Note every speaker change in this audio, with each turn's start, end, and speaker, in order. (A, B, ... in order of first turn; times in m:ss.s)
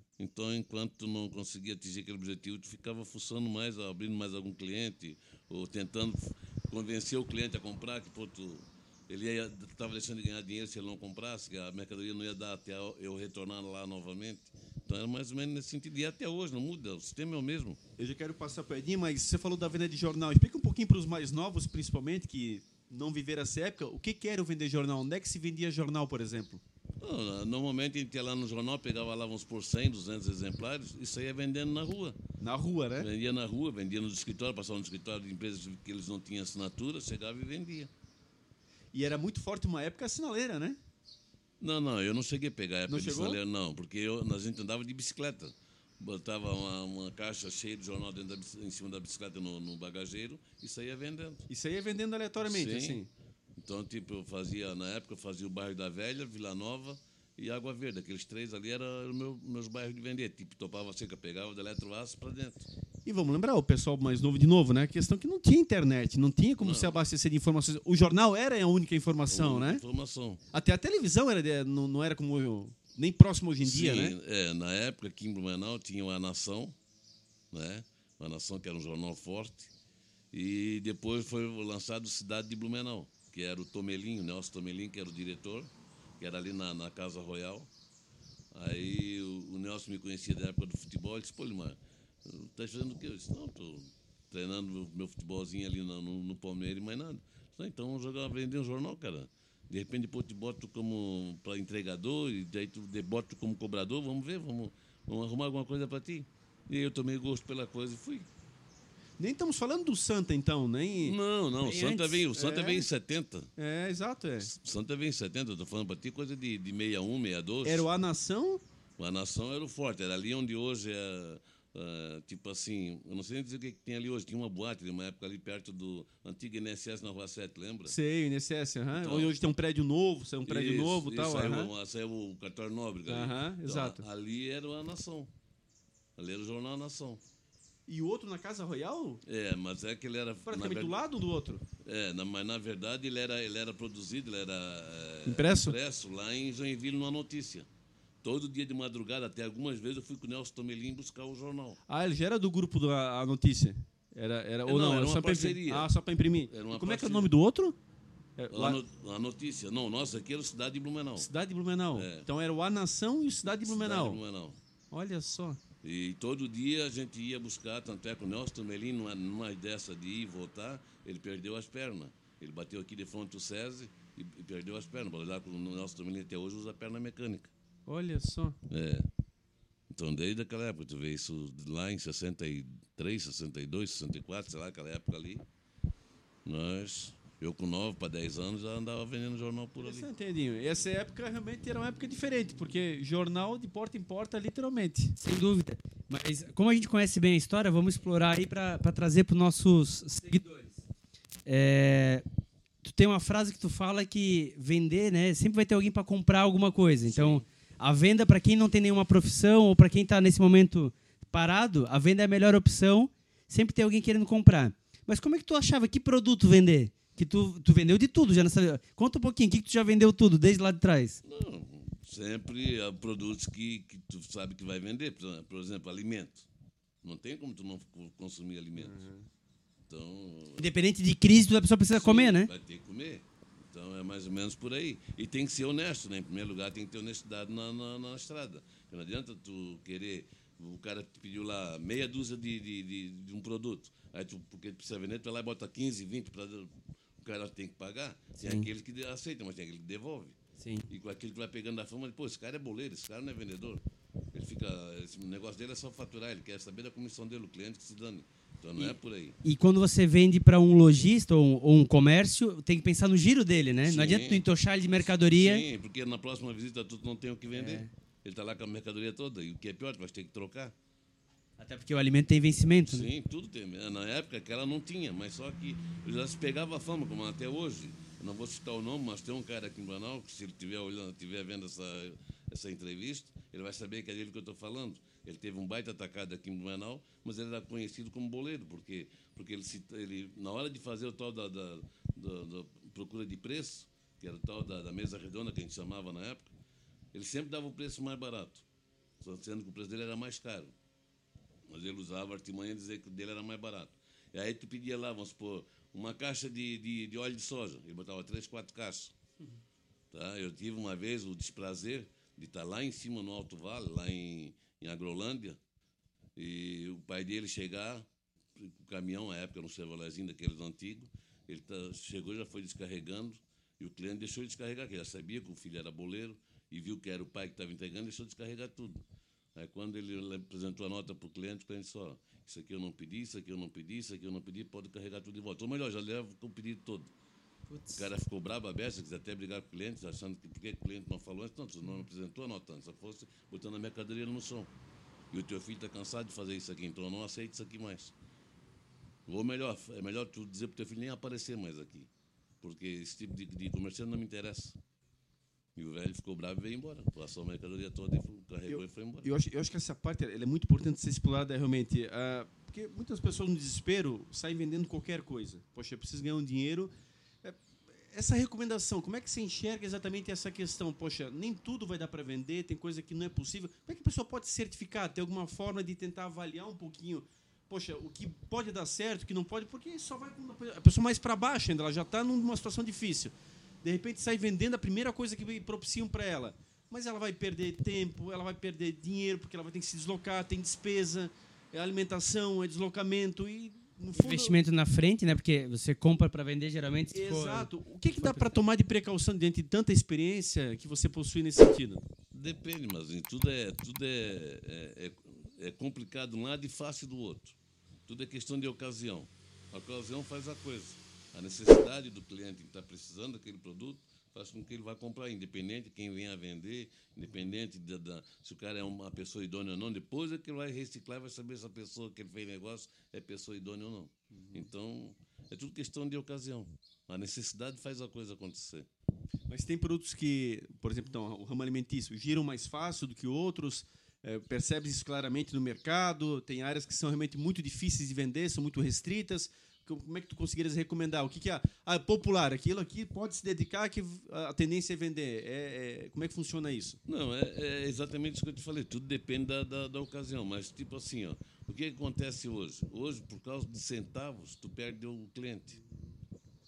0:00.2-0:17.8 A
0:18.0-0:26.6 B
0:27.0-0:32.2 A
0:32.4-0:33.1 B
0:33.0-0:37.9 A
0:38.9-0:40.8 B
0:41.6-0:51.5 A
0:42.9-0:43.4 B
0:51.5-0:53.1 B
0:52.4-0:53.0 A
0:53.6-1:02.7 A
1:03.0-1:09.8 B
1:06.6-1:07.0 A
1:09.3-1:10.4 A
1:10.5-1:14.2 B
1:13.6-1:16.8 A
1:17.5-1:19.7 A
1:20.3-1:27.7 A
1:28.5-1:48.3 A
1:49.2-1:52.9 B
1:51.0-1:53.5 A
1:53.6-1:54.5 B
1:54.4-1:57.8 A
1:57.6-1:58.6 B
1:59.0-2:08.0 A
2:07.9-2:11.7 B
2:09.0-2:09.3 A
2:10.5-2:15.3 A
2:13.1-2:14.0 B
2:16.2-2:17.2 A
2:17.9-2:19.2 B
2:19.2-2:21.0 A
2:20.5-2:21.6 B
2:21.8-2:27.7 A
2:25.3-2:25.8 B
2:28.2-2:31.8 A
2:31.9-2:37.8 B
2:34.7-2:35.9 A
2:36.5-2:37.3 A
2:38.4-2:38.8 B
2:38.5-2:41.3 A
2:41.2-2:44.2 B
2:41.9-2:42.3 A
2:43.6-2:44.6 A
2:44.9-2:45.6 B
2:45.8-2:57.5 A
2:57.9-2:58.6 B
2:58.7-2:59.1 A
2:59.9-3:05.4 A
3:06.4-3:10.1 A
3:09.8-3:15.2 B
3:15.2-3:20.8 C
3:21.5-3:22.2 C
3:22.8-3:41.2 C
3:27.1-3:27.4 A
3:41.2-3:46.5 A
3:47.0-3:49.0 A
3:48.8-3:49.3 B
3:49.9-3:50.7 A
3:50.6-3:52.5 C
3:51.9-4:10.4 A
4:08.4-4:08.7 C
4:10.6-4:10.9 C
4:10.9-4:19.4 A
4:18.8-4:25.6 C
4:23.8-4:24.4 A
4:25.1-4:30.7 A
4:27.5-4:27.9 C
4:31.6-4:33.1 C
4:32.9-4:56.5 A
4:57.1-4:58.6 A
4:59.2-5:00.7 A
5:01.7-5:09.1 A
5:10.1-5:15.6 A
5:16.4-5:29.0 A
5:29.6-5:37.1 A
5:37.7-5:38.1 C
5:38.0-5:44.7 A
5:45.3-5:48.1 A
5:49.3-5:52.1 A
5:52.6-5:54.8 A
5:55.8-5:59.3 A
5:58.7-6:06.9 B
6:07.4-6:34.6 B
6:34.1-6:37.7 C
6:37.1-6:42.0 B
6:38.2-6:38.6 C
6:42.3-6:47.6 A
6:48.1-7:08.9 A
7:04.3-7:04.7 B
7:09.5-7:27.0 B
7:27.1-7:35.8 A